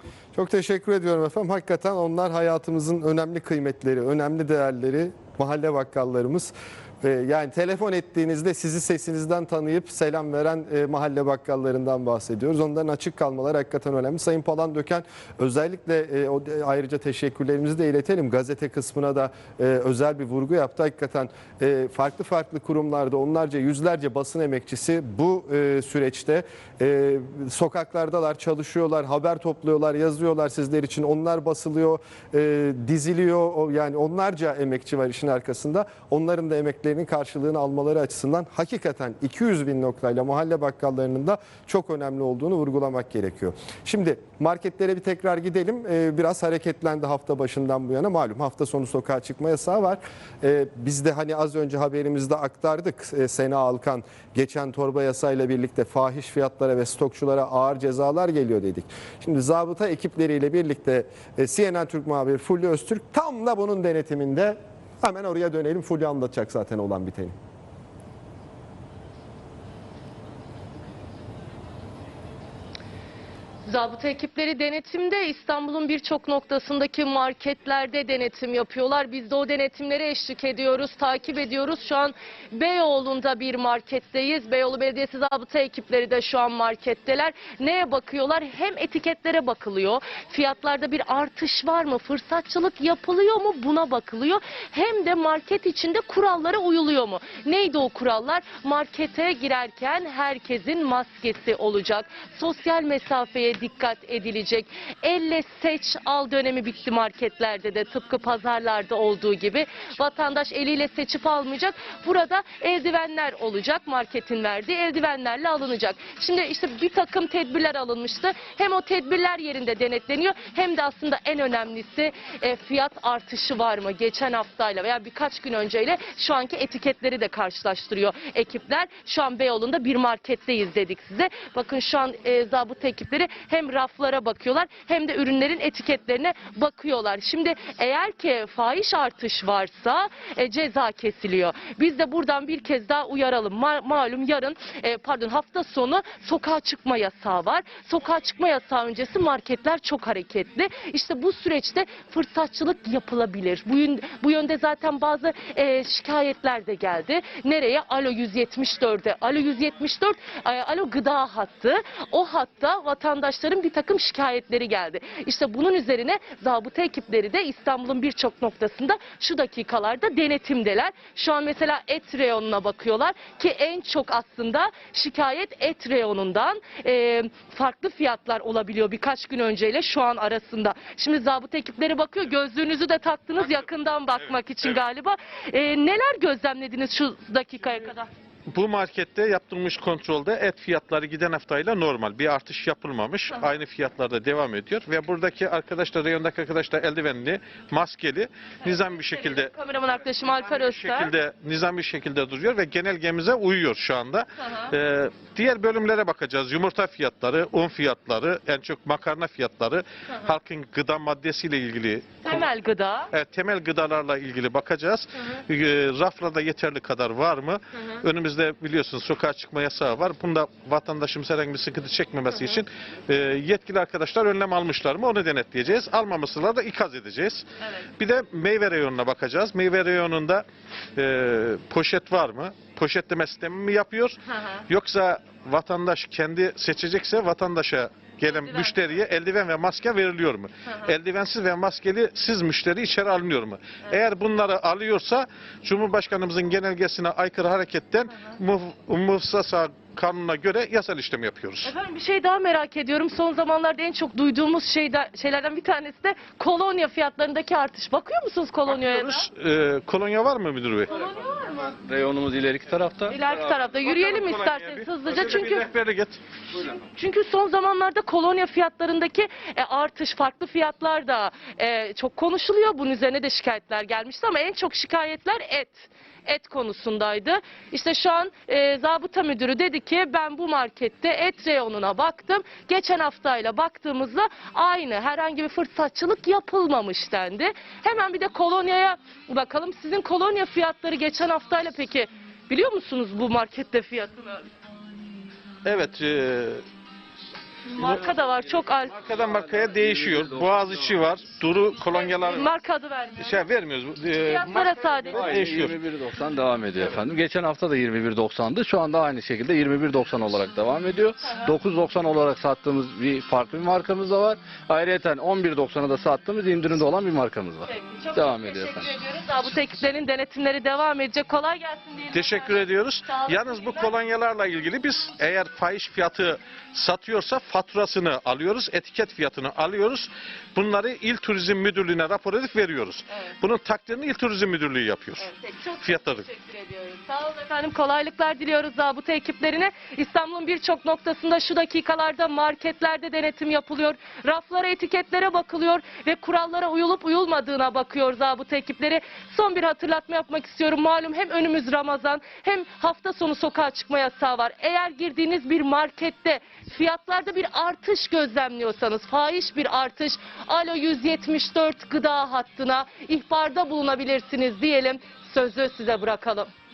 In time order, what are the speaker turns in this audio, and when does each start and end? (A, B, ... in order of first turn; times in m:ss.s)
0:00.3-1:07.3 A
1:13.6-3:08.1 B
3:08.5-3:19.5 C
3:18.6-3:21.1 B
3:20.1-3:32.5 C
3:24.4-3:24.7 B
3:30.1-3:30.3 B
3:32.2-3:33.1 B
3:33.1-3:47.4 C
3:37.7-3:38.0 B
3:42.3-3:42.6 B
3:48.0-3:50.4 C
3:51.0-4:11.7 C
3:54.3-3:54.6 B
3:58.3-3:58.8 B
4:00.7-4:00.9 B
4:11.6-4:19.3 B
4:18.6-4:20.9 C
4:20.9-4:21.7 B
4:21.0-4:23.2 D
4:23.1-4:25.7 B
4:23.3-4:26.2 C
4:26.6-4:54.5 B
4:55.6-4:56.6 C
4:57.7-4:59.1 B
4:57.8-4:58.1 D
4:58.9-5:02.5 C
4:59.0-5:01.0 D
5:01.9-5:03.4 B
5:03.2-5:05.8 C
5:04.1-5:05.3 B
5:05.1-5:18.9 D
5:11.2-5:11.5 B
5:17.6-5:23.9 B
5:22.1-5:35.3 C
5:35.2-6:06.5 B
5:35.8-5:36.3 C